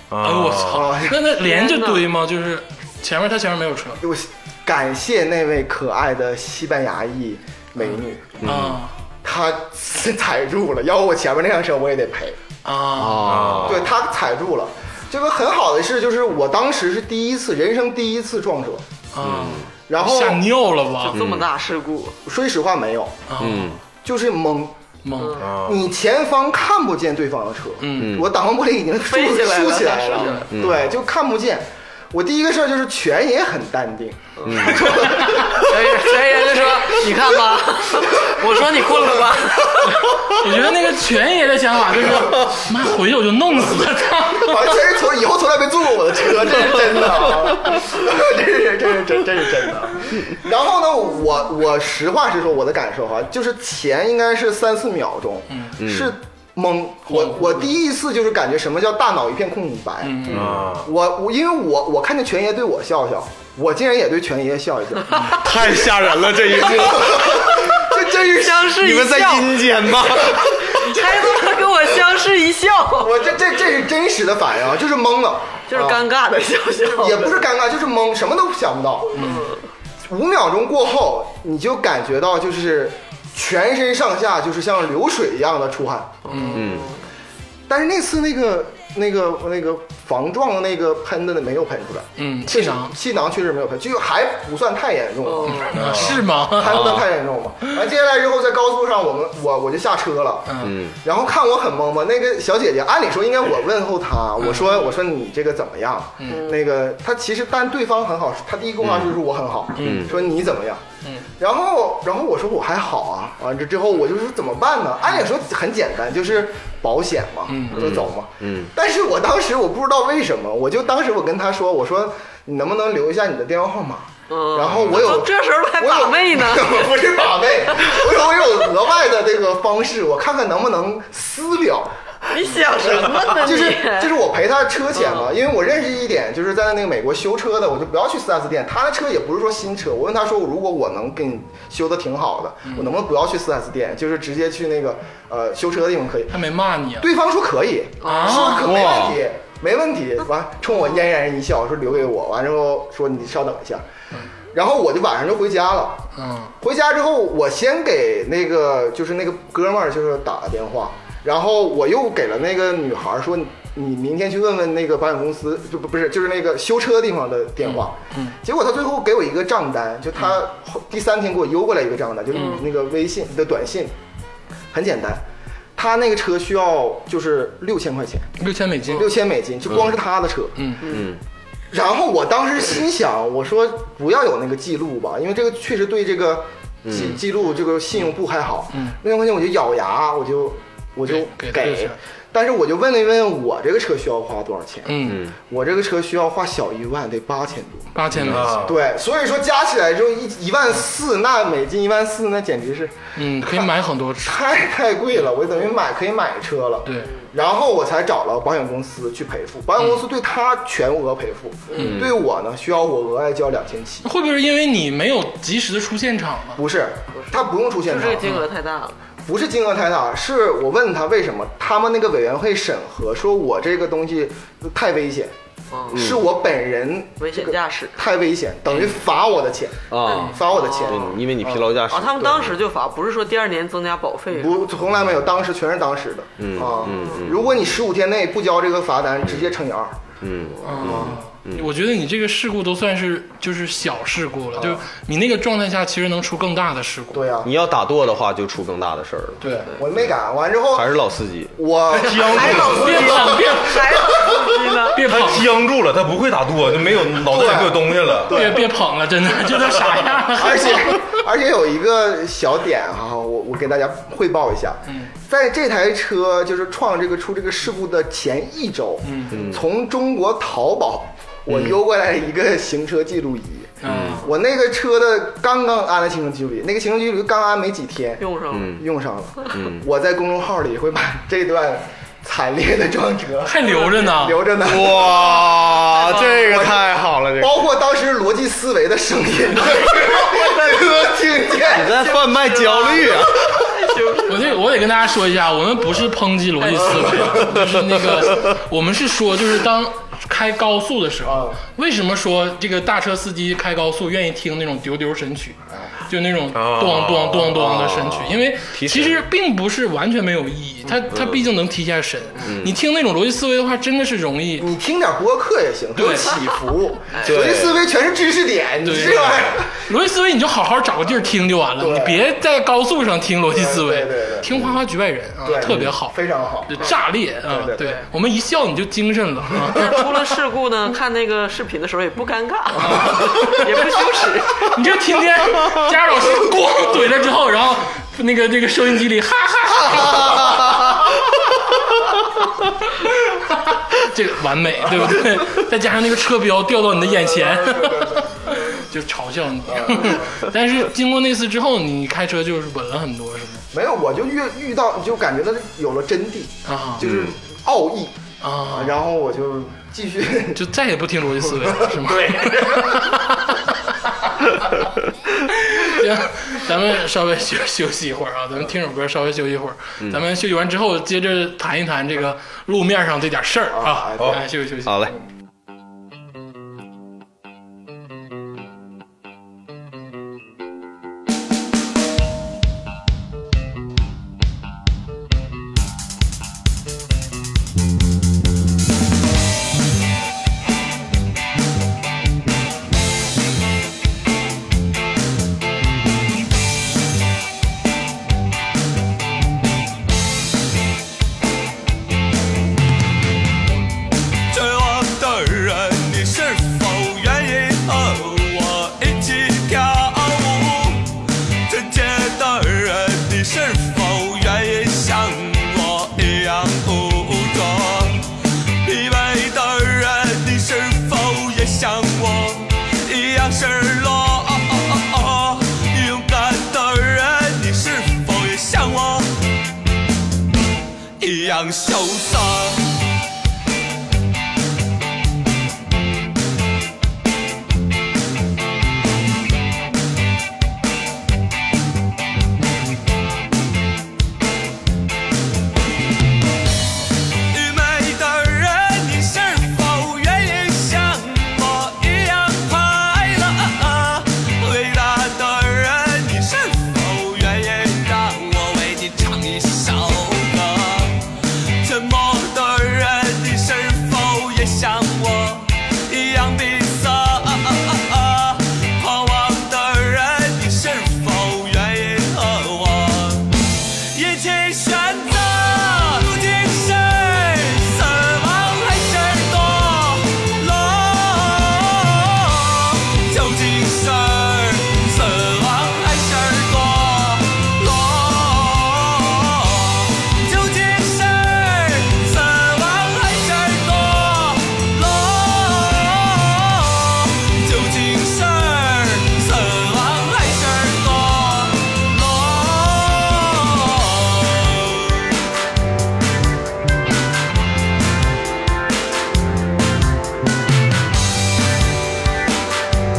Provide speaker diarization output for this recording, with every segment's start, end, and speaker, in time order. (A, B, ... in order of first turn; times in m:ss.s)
0:00.1-0:00.9 A
0:00.2-0:04.0 B
0:00.7-0:01.2 C
0:01.4-0:02.0 D
0:04.0-0:08.4 C
0:07.8-0:08.9 B
0:08.4-0:08.8 E
0:09.2-0:12.4 C
0:12.6-0:13.6 B
0:13.0-0:13.9 E
0:13.2-0:13.9 A
0:13.6-0:18.8 C
0:19.1-0:21.2 B
0:19.2-0:19.7 E
0:19.9-0:20.4 C
0:21.0-0:22.2 D
0:21.1-0:21.5 E
0:22.2-0:23.2 C
0:23.3-0:23.8 B
0:23.4-0:23.8 E
0:24.0-0:24.8 C
0:25.0-0:25.4 B
0:25.2-0:25.5 D
0:25.4-0:25.8 A
0:25.6-0:36.1 C
0:27.8-0:28.2 B
0:28.0-0:28.3 E
0:29.0-0:30.5 D
0:30.5-0:30.9 E
0:34.4-0:34.7 D
0:34.4-0:35.0 E
0:34.7-0:35.5 B
0:35.5-0:40.2 D
0:40.2-0:44.7 B
0:44.3-1:05.9 C
0:55.5-0:55.8 B
0:55.8-0:56.1 E
0:57.1-0:57.7 B
1:00.0-1:00.6 B
1:00.3-1:00.9 A
1:00.3-1:00.6 E
1:05.3-1:07.7 E
1:06.5-1:08.8 C
1:08.0-1:09.8 D
1:08.7-1:10.8 E
1:09.9-1:11.5 C
1:10.6-1:13.2 D
1:13.0-1:16.0 C
1:15.7-1:17.5 D
1:16.9-1:19.3 C
1:19.1-1:19.5 B
1:19.2-1:19.6 D
1:20.0-1:26.2 C
1:26.2-1:27.0 D
1:26.3-1:26.7 B
1:26.5-1:26.9 E
1:27.7-1:50.8 C
1:32.2-1:32.9 B
1:35.2-1:35.7 D
1:35.5-1:37.0 B
1:35.7-1:36.1 A
1:36.6-1:37.1 E
1:40.4-1:40.8 B
1:40.6-1:41.0 E
1:44.4-1:44.8 B
1:46.3-1:46.6 D
1:48.8-1:49.2 E
1:49.8-1:50.1 B
1:49.8-1:50.1 E
1:51.4-2:11.9 C
1:57.5-1:57.9 B
1:57.7-1:58.7 E
2:04.3-2:08.1 D
2:12.3-2:14.2 D
2:12.8-2:26.4 C
2:14.9-2:15.4 D
2:22.6-2:22.9 B
2:26.3-2:27.1 B
2:27.0-2:33.8 C
2:28.0-2:28.7 D
2:28.0-2:28.8 B
2:28.6-2:29.2 E
2:34.5-2:36.0 C
2:36.2-2:36.5 B
2:36.6-2:53.9 C
2:47.6-2:48.4 B
2:52.3-2:52.6 D
2:52.3-2:52.6 B
2:54.7-2:55.2 C
2:55.8-2:58.3 C
2:58.4-2:59.1 B
2:58.9-3:00.7 C
3:00.6-3:00.8 B
3:00.8-3:01.2 E
3:01.7-3:17.9 C
3:06.8-3:07.2 E
3:08.7-3:09.0 B
3:11.0-3:12.0 B
3:14.8-3:15.2 B
3:15.0-3:15.3 E
3:17.9-3:18.7 B
3:18.2-3:18.8 A
3:18.6-3:23.7 C
3:23.2-3:24.4 B
3:24.2-3:34.0 C
3:26.8-3:27.1 B
3:31.7-3:32.0 B
3:31.8-3:32.2 E
3:34.0-3:36.6 B
3:36.6-3:38.4 C
3:37.1-3:39.0 D
3:39.2-3:45.3 C
3:45.7-3:46.1 D
3:45.9-3:51.7 C
3:45.9-3:46.2 E
3:47.2-3:48.0 D
3:49.9-3:52.6 E
3:50.0-3:51.2 D
3:51.9-3:54.7 D
3:54.3-4:00.0 C
3:56.4-3:57.6 E
3:56.7-3:57.3 D
4:00.2-4:01.7 E
4:00.6-4:07.3 B
4:00.8-4:01.2 C
4:04.6-4:04.8 C
4:07.1-4:07.5 C
4:07.4-4:10.1 E
4:09.4-4:09.7 B
4:09.7-4:11.0 C
4:10.7-4:11.6 E
4:11.5-4:14.4 C
4:11.9-4:13.9 B
4:12.0-4:13.2 A
4:12.3-4:15.0 D
4:14.9-4:15.5 B
4:15.0-4:18.5 A
4:17.2-4:18.7 C
4:18.3-4:21.0 B
4:20.3-4:45.4 C
4:29.0-4:29.4 B
4:29.3-4:29.6 E
4:31.5-4:31.8 E
4:33.8-4:34.3 B
4:33.8-4:34.2 E
4:38.2-4:38.8 D
4:38.5-4:38.8 E
4:39.5-4:39.8 E
4:43.4-4:44.4 B
4:44.6-4:47.6 E
4:45.9-4:46.6 D
4:46.4-4:52.0 C
4:51.6-4:53.8 E
4:51.9-4:54.6 D
4:54.2-5:05.6 B
4:56.6-4:57.5 D
4:57.3-4:58.3 E
5:01.2-5:01.6 C
5:06.1-5:14.7 B
5:06.5-5:07.4 A
5:07.3-5:09.3 E
5:11.1-5:11.5 E
5:12.4-5:12.8 E
5:14.6-5:19.8 C
5:15.9-5:16.4 B
5:17.2-5:17.9 E
5:18.8-5:30.1 B
5:21.8-5:22.3 C
5:23.5-5:24.6 C
5:24.5-5:24.8 E
5:25.4-5:28.0 C
5:25.6-5:25.9 E
5:29.8-5:34.8 D
5:32.7-5:34.0 B
5:34.5-5:41.0 B
5:40.1-5:40.7 E
5:42.8-5:53.6 B
5:47.1-5:48.3 C
5:49.7-5:50.4 C
5:53.7-6:00.6 C
5:56.6-5:57.0 B
5:57.0-5:57.4 E
5:58.4-5:59.0 B
6:00.5-6:03.6 B
6:01.5-6:03.0 C
6:05.6-6:15.2 B
6:13.7-6:14.4 C
6:14.8-6:15.1 E
6:44.5-6:58.3 F
6:58.8-7:09.4 F
7:11.2-7:12.9 F
7:27.5-8:25.2 F